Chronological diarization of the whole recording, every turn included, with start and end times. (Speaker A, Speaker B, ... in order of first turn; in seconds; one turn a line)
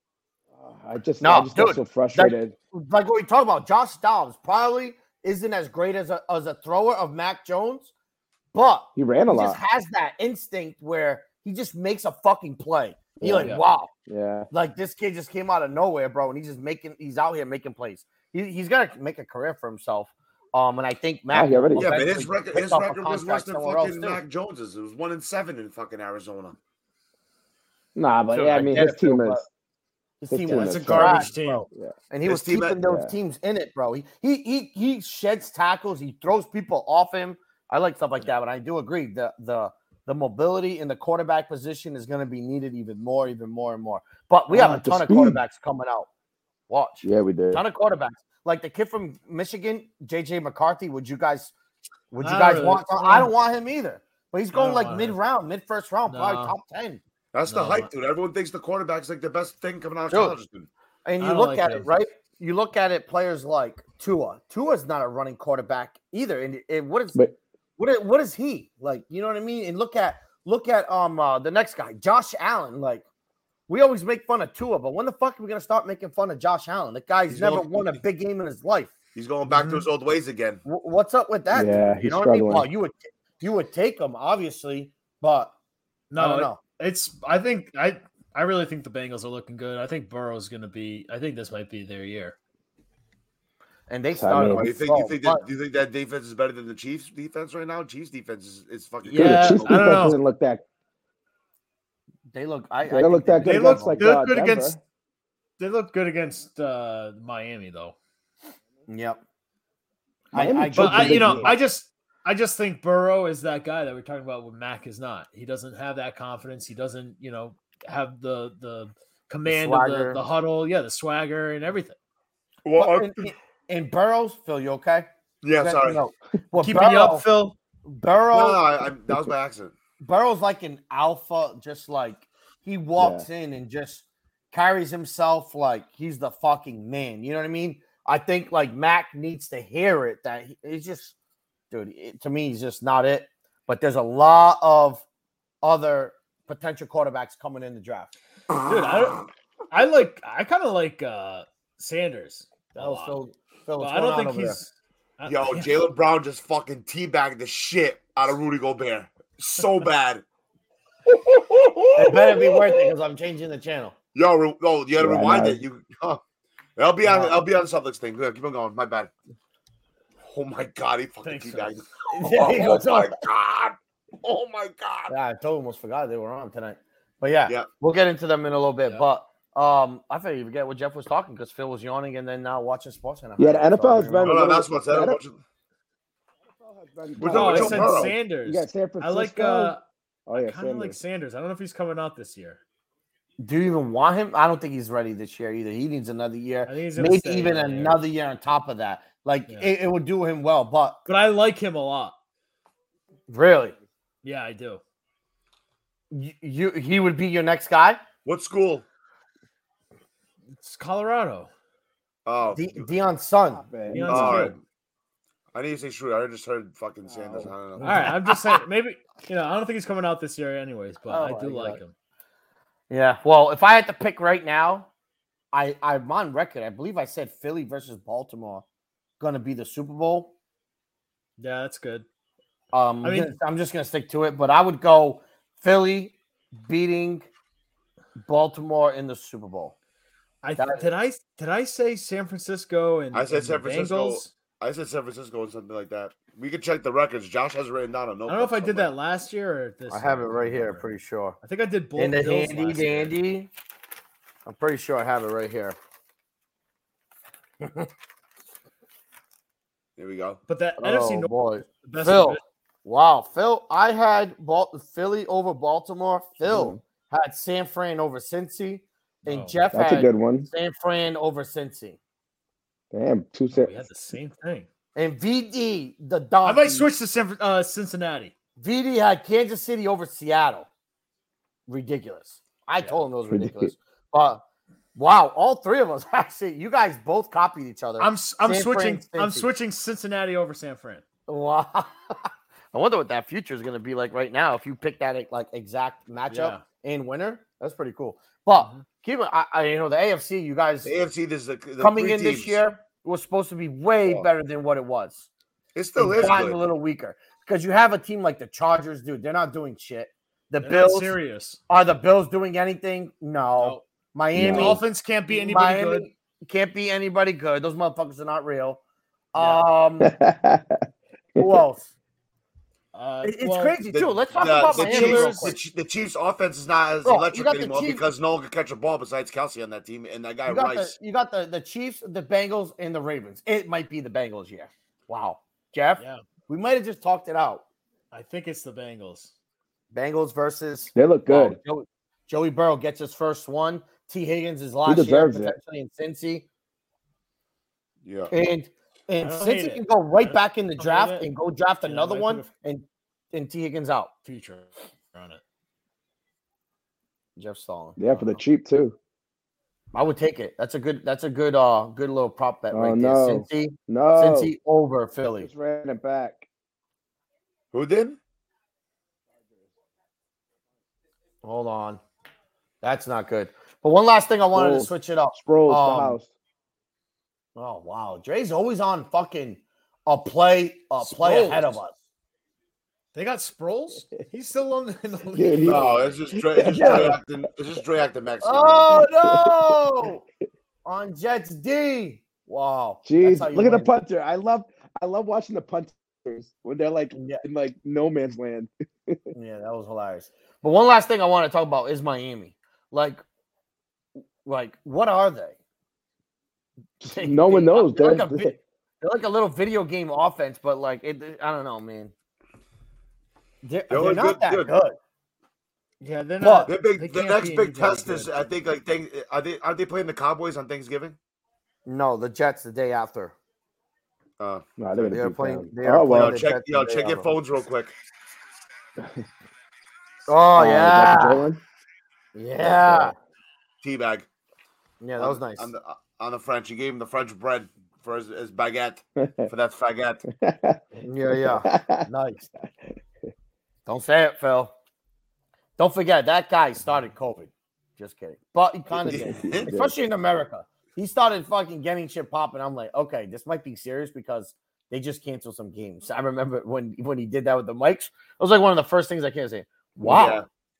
Speaker A: 0.6-2.5
Speaker B: 1.2-7.9
Speaker B: 8.5-13.9
Speaker A: 8.9-9.6
Speaker A: 13.2-14.5
Speaker B: 14.5-24.2
Speaker A: 21.3-21.9
Speaker C: 21.8-26.6
Speaker A: 27.9-29.4
Speaker B: 28.3-29.4
Speaker B: 30.2-46.1
Speaker A: 30.3-31.9
Speaker D: 30.5-31.7
Speaker C: 32.2-32.8
Speaker A: 32.8-33.1
Speaker A: 44.5-45.4
Speaker B: 46.7-51.5
Speaker A: 47.0-47.6
Speaker B: 52.1-57.0
Speaker D: 52.2-53.3
Speaker D: 54.5-55.2
Speaker D: 56.1-56.5
Speaker C: 57.3-60.7
Speaker D: 57.5-57.9
Speaker B: 60.1-60.4
Speaker B: 61.0-67.2
Speaker D: 61.2-61.9
Speaker B: 67.8-73.0
Speaker B: 73.7-78.9
Speaker C: 77.3-78.0
Speaker C: 79.1-80.6
Speaker D: 79.5-79.8
Speaker B: 80.6-85.5
Speaker A: 81.5-82.7
Speaker D: 86.1-92.3
Speaker B: 86.2-86.6
Speaker B: 93.9-95.4
Speaker A: 94.1-94.7
Speaker C: 94.5-100.1
Speaker D: 99.0-100.2
Speaker A: 99.1-100.6
Speaker B: 102.3-104.0
Speaker A: 102.8-104.8
Speaker D: 103.4-104.7
Speaker D: 105.6-108.0
Speaker B: 108.9-109.2
Speaker B: 110.3-111.5
Speaker A: 110.3-111.6
Speaker D: 110.8-122.0
Speaker B: 119.5-120.2
Speaker C: 122.6-123.3
Speaker B: 122.8-127.2
Speaker C: 125.4-126.0
Speaker D: 126.6-127.5
Speaker B: 127.8-128.6
Speaker C: 128.3-129.7
Speaker B: 130.0-141.1
Speaker A: 133.0-133.3
Speaker B: 141.7-145.0
Speaker B: 145.6-148.1
Speaker D: 148.5-153.2
Speaker B: 152.7-154.6
Speaker D: 153.8-155.7
Speaker C: 155.3-160.2
Speaker C: 161.1-162.9
Speaker B: 161.9-163.9
Speaker C: 164.1-166.2
Speaker A: 165.0-165.6
Speaker C: 166.8-169.1
Speaker B: 167.0-167.3
Speaker C: 170.2-175.1
Speaker D: 171.2-171.7
Speaker B: 172.1-173.1
Speaker B: 175.1-184.4
Speaker A: 183.4-185.2
Speaker C: 184.2-185.4
Speaker A: 186.5-189.8
Speaker C: 187.2-188.1
Speaker D: 187.3-192.6
Speaker A: 190.3-191.0
Speaker B: 193.4-201.0
Speaker D: 196.7-198.0
Speaker D: 201.1-202.2
Speaker B: 203.3-203.8
Speaker D: 204.2-204.8
Speaker B: 206.1-208.0
Speaker C: 208.2-208.8
Speaker D: 210.6-211.5
Speaker C: 212.2-212.9
Speaker B: 212.5-213.6
Speaker A: 213.5-214.4
Speaker D: 213.9-214.6
Speaker C: 214.0-214.6
Speaker C: 215.5-218.0
Speaker A: 217.1-217.5
Speaker B: 217.8-218.6
Speaker D: 217.8-221.9
Speaker B: 221.1-221.8
Speaker B: 222.9-224.9
Speaker B: 225.5-228.6
Speaker B: 229.2-230.3
Speaker D: 231.4-232.1
Speaker B: 232.7-237.3
Speaker D: 233.0-233.3
Speaker B: 238.2-239.7
Speaker D: 240.4-244.3
Speaker B: 240.6-240.9
Speaker C: 243.1-248.9
Speaker D: 248.3-250.9
Speaker B: 249.9-251.3
Speaker D: 251.4-253.2
Speaker B: 251.9-253.5
Speaker B: 254.4-255.8
Speaker B: 257.6-257.9
Speaker C: 260.0-260.4
Speaker D: 260.5-262.4
Speaker B: 260.8-272.0
Speaker A: 266.4-266.8
Speaker D: 269.2-269.6
Speaker A: 269.7-270.5
Speaker A: 272.9-273.7
Speaker D: 273.5-274.7
Speaker B: 274.9-276.9
Speaker D: 276.4-278.3
Speaker B: 278.6-280.7
Speaker B: 281.7-284.4
Speaker A: 283.3-283.7
Speaker B: 284.9-289.5
Speaker D: 288.0-291.0
Speaker B: 291.3-300.9
Speaker D: 296.3-296.6
Speaker D: 298.6-298.8
Speaker C: 300.8-302.6
Speaker B: 301.8-305.3
Speaker C: 305.7-306.6
Speaker B: 306.0-311.1
Speaker D: 310.6-311.6
Speaker B: 311.7-318.8
Speaker A: 314.3-314.8
Speaker D: 314.4-316.1
Speaker B: 319.3-320.1
Speaker D: 319.3-319.6
Speaker A: 320.0-320.8
Speaker A: 321.4-321.6
Speaker B: 321.4-321.9
Speaker D: 322.9-323.8
Speaker B: 323.2-325.6
Speaker C: 323.9-330.9
Speaker D: 324.3-325.6
Speaker B: 327.0-328.0
Speaker B: 330.4-337.6
Speaker D: 338.1-339.3
Speaker B: 339.9-346.5
Speaker A: 340.9-341.6
Speaker A: 344.8-345.6
Speaker C: 348.0-348.3
Speaker B: 348.3-354.1
Speaker D: 349.2-351.3
Speaker D: 351.8-352.5
Speaker D: 354.2-355.4
Speaker B: 357.4-358.0
Speaker A: 358.0-358.9
Speaker D: 358.1-358.4
Speaker B: 359.9-365.5
Speaker A: 362.7-364.5
Speaker A: 365.4-366.4
Speaker C: 367.7-368.2
Speaker B: 371.4-372.0
Speaker B: 372.8-376.2
Speaker A: 374.5-376.3
Speaker B: 377.6-381.9
Speaker D: 381.0-381.8
Speaker D: 383.1-386.2
Speaker A: 385.3-387.2
Speaker C: 385.6-389.0
Speaker B: 386.7-387.1
Speaker B: 388.4-390.2
Speaker A: 388.9-389.5
Speaker B: 390.8-393.9
Speaker A: 393.0-399.2
Speaker B: 397.1-397.4
Speaker B: 399.3-403.2
Speaker B: 404.4-405.6
Speaker A: 407.0-408.6
Speaker B: 407.1-412.1
Speaker B: 413.6-414.9
Speaker C: 413.9-414.7
Speaker D: 416.0-418.3
Speaker B: 416.4-416.7
Speaker C: 416.7-421.2
Speaker B: 421.9-423.3
Speaker C: 424.4-424.6
Speaker A: 424.8-426.4
Speaker B: 425.1-427.3
Speaker C: 426.1-427.9
Speaker B: 430.3-431.4
Speaker A: 430.5-431.6
Speaker B: 432.3-433.1
Speaker A: 432.6-433.1
Speaker C: 433.8-434.3
Speaker B: 435.0-435.7
Speaker C: 435.2-440.2
Speaker A: 439.2-439.5
Speaker A: 440.4-442.1
Speaker B: 441.0-442.5
Speaker B: 443.9-444.7
Speaker B: 445.8-460.4
Speaker A: 449.0-449.9
Speaker C: 449.0-449.8
Speaker C: 460.0-460.5